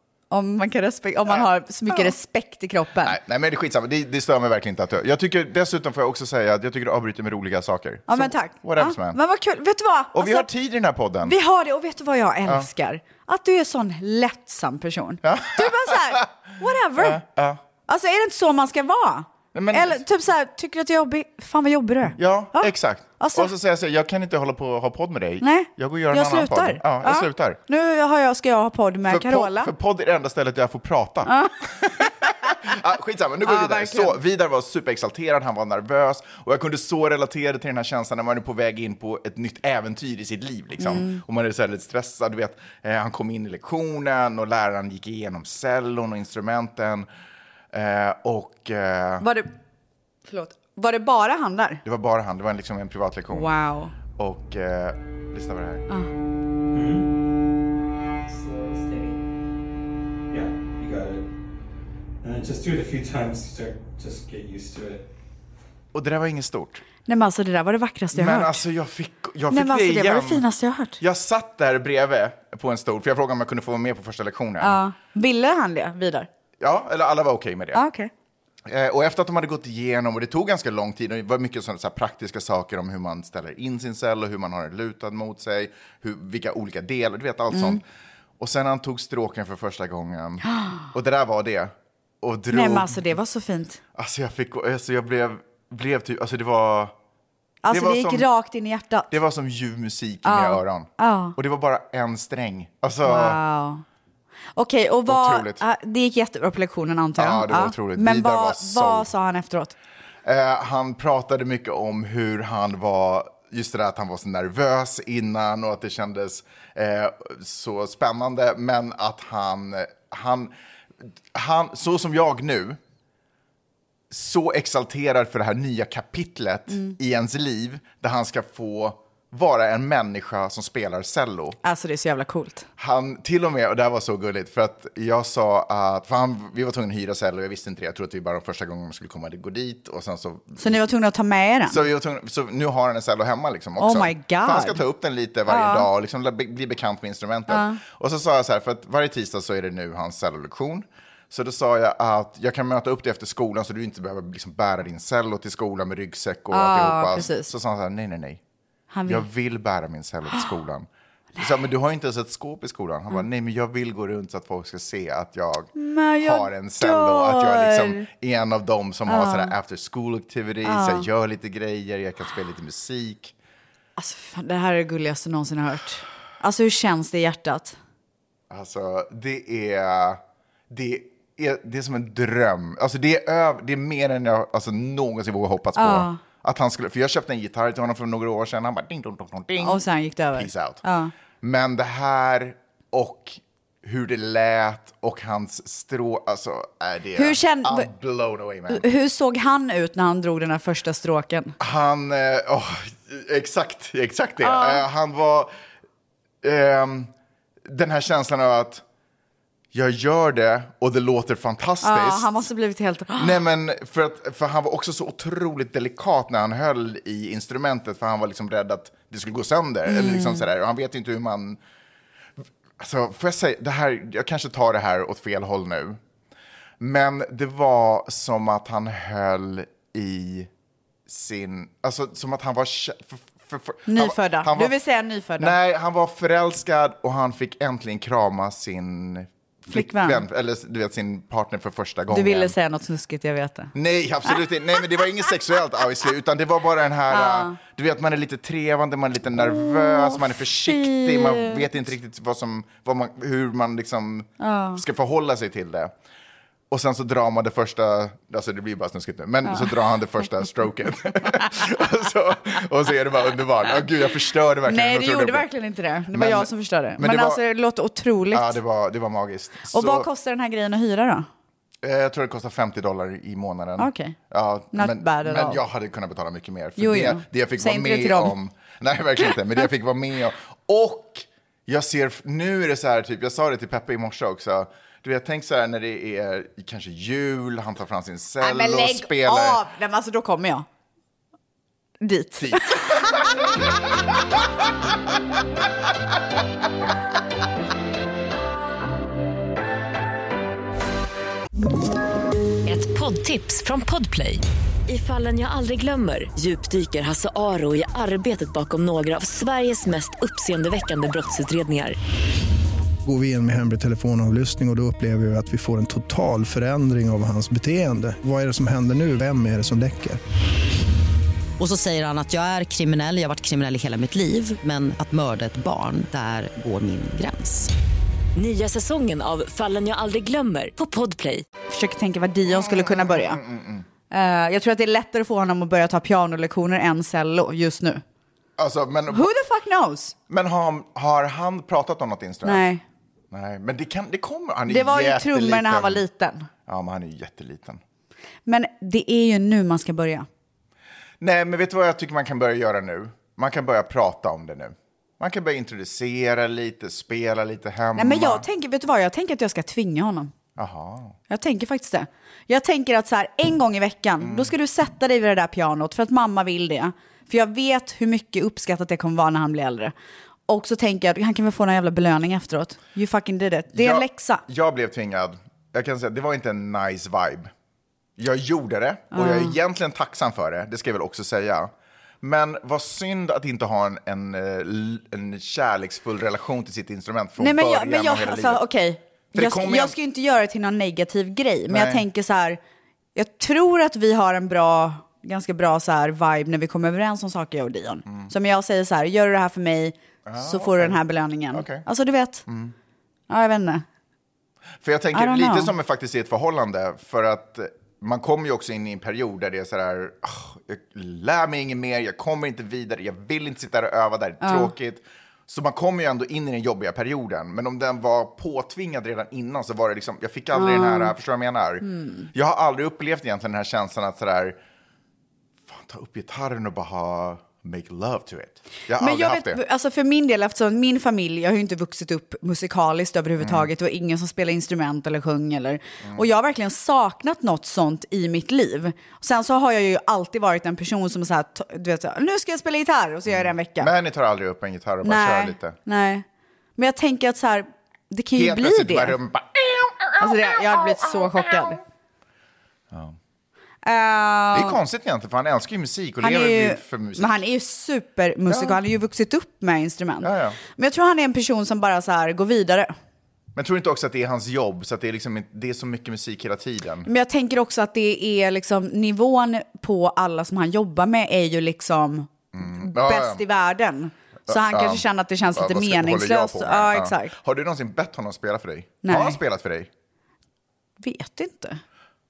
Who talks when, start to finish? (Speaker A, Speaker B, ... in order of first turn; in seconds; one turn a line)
Speaker A: 0.3-3.1
Speaker B: 1.3-2.1
Speaker B: 3.0-9.2
Speaker A: 8.1-10.5
Speaker B: 10.1-11.3
Speaker A: 11.2-17.2
Speaker B: 15.2-16.3
Speaker B: 16.9-17.6
Speaker A: 17.9-23.5
Speaker B: 19.5-20.0
Speaker B: 22.2-27.6
Speaker A: 25.4-29.7
Speaker B: 29.1-47.1
Speaker A: 31.3-32.1
Speaker A: 33.4-34.2
Speaker A: 40.8-41.2
Speaker B: 47.7-49.3
Speaker A: 49.2-49.5
Speaker A: 50.3-51.8
Speaker B: 51.8-53.5
Speaker A: 53.3-53.9
Speaker B: 54.1-55.9
Speaker C: 56.7-57.1
Speaker C: 58.2-59.2
Speaker C: 60.3-61.3
Speaker C: 62.2-65.0
Speaker B: 65.9-66.8
Speaker A: 67.1-68.6
Speaker B: 68.1-70.5
Speaker A: 69.5-71.0
Speaker B: 71.0-74.8
Speaker A: 74.6-76.3
Speaker B: 76.6-77.8
Speaker A: 77.7-78.1
Speaker B: 78.6-87.8
Speaker A: 87.5-87.8
Speaker B: 88.4-93.0
Speaker A: 90.5-90.8
Speaker A: 92.5-93.8
Speaker B: 93.9-96.9
Speaker A: 97.6-99.1
Speaker B: 97.7-98.3
Speaker B: 99.1-103.4
Speaker A: 100.2-101.3
Speaker A: 103.0-103.8
Speaker A: 104.5-109.7
Speaker B: 105.1-105.6
Speaker B: 107.2-109.1
Speaker B: 110.2-122.8
Speaker B: 124.1-131.6
Speaker A: 126.7-126.9
Speaker A: 131.6-132.7
Speaker B: 132.8-140.8
Speaker A: 140.6-141.8
Speaker B: 141.7-158.4
Speaker A: 143.8-144.8
Speaker A: 145.5-145.9
Speaker A: 147.5-147.8
Speaker A: 156.5-157.5
Speaker A: 158.9-159.2
Speaker B: 159.1-173.3
Speaker A: 165.8-168.1
Speaker A: 169.1-169.5
Speaker A: 170.6-171.1
Speaker A: 174.0-177.8
Speaker B: 178.5-189.8
Speaker A: 185.8-186.2
Speaker A: 189.6-191.1
Speaker B: 190.3-190.8
Speaker B: 191.4-198.8
Speaker A: 197.2-197.9
Speaker A: 198.7-201.6
Speaker B: 201.6-205.5
Speaker A: 204.4-204.8
Speaker B: 206.4-207.1
Speaker B: 207.6-208.8
Speaker B: 209.7-212.4
Speaker A: 211.8-213.4
Speaker B: 213.2-221.6
Speaker A: 219.8-220.4
Speaker B: 222.8-226.0
Speaker B: 226.8-230.5
Speaker B: 231.1-234.8
Speaker A: 233.9-235.5
Speaker B: 235.4-242.5
Speaker A: 239.7-240.2
Speaker A: 242.1-243.7
Speaker B: 243.7-255.9
Speaker A: 247.1-247.6
Speaker A: 249.4-251.6
Speaker A: 254.4-254.8
Speaker B: 256.7-265.4
Speaker A: 264.6-268.6
Speaker B: 266.1-267.4
Speaker B: 268.3-270.1
Speaker A: 269.7-271.3
Speaker B: 271.8-289.6
Speaker A: 273.8-274.1
Speaker A: 274.7-275.6
Speaker A: 276.8-278.3
Speaker A: 288.4-290.6
Speaker A: 292.0-293.1
Speaker B: 292.4-293.2
Speaker D: 302.6-312.0
Speaker E: 313.0-320.2
Speaker F: 321.6-327.7
Speaker D: 328.4-331.4
Speaker A: 331.7-333.4
Speaker B: 332.4-333.9
Speaker A: 334.1-338.0
Speaker B: 338.6-339.3
Speaker A: 339.1-340.1
Speaker B: 340.3-342.6
Speaker A: 342.4-342.8
Speaker B: 343.3-346.0
Speaker A: 344.7-346.5
Speaker B: 346.6-347.8
Speaker A: 348.4-350.3
Speaker B: 351.2-358.4
Speaker A: 357.9-360.3
Speaker B: 360.6-361.2
Speaker A: 361.3-369.9
Speaker B: 364.2-364.5
Speaker A: 370.5-374.4
Speaker B: 373.7-377.5
Speaker B: 378.2-388.6
Speaker A: 379.1-379.6
Speaker A: 387.4-392.6
Speaker B: 389.3-389.9
Speaker B: 391.7-392.0
Speaker A: 393.1-402.4
Speaker B: 400.2-401.0
Speaker B: 401.5-401.8
Speaker B: 402.5-402.7
Speaker A: 403.3-403.8
Speaker B: 404.8-424.6
Speaker A: 405.1-405.7
Speaker A: 414.4-414.7
Speaker A: 420.5-421.1
Speaker A: 421.8-422.3
Speaker B: 425.7-429.6
Speaker A: 429.0-443.9
Speaker B: 433.4-433.7
Speaker B: 443.3-445.8
Speaker A: 445.0-446.2
Speaker A: 446.8-449.2
Speaker B: 448.3-451.6
Speaker A: 450.2-451.8
Speaker B: 452.9-453.2
Speaker A: 453.8-454.8
Speaker B: 454.5-457.4
Speaker A: 456.2-462.9
Speaker B: 458.5-458.8
Speaker B: 460.2-460.6
Speaker B: 463.5-467.1
Speaker A: 467.1-477.3
Speaker B: 472.5-473.4
Speaker B: 474.5-479.9
Speaker A: 479.0-479.4
Speaker A: 481.0-481.8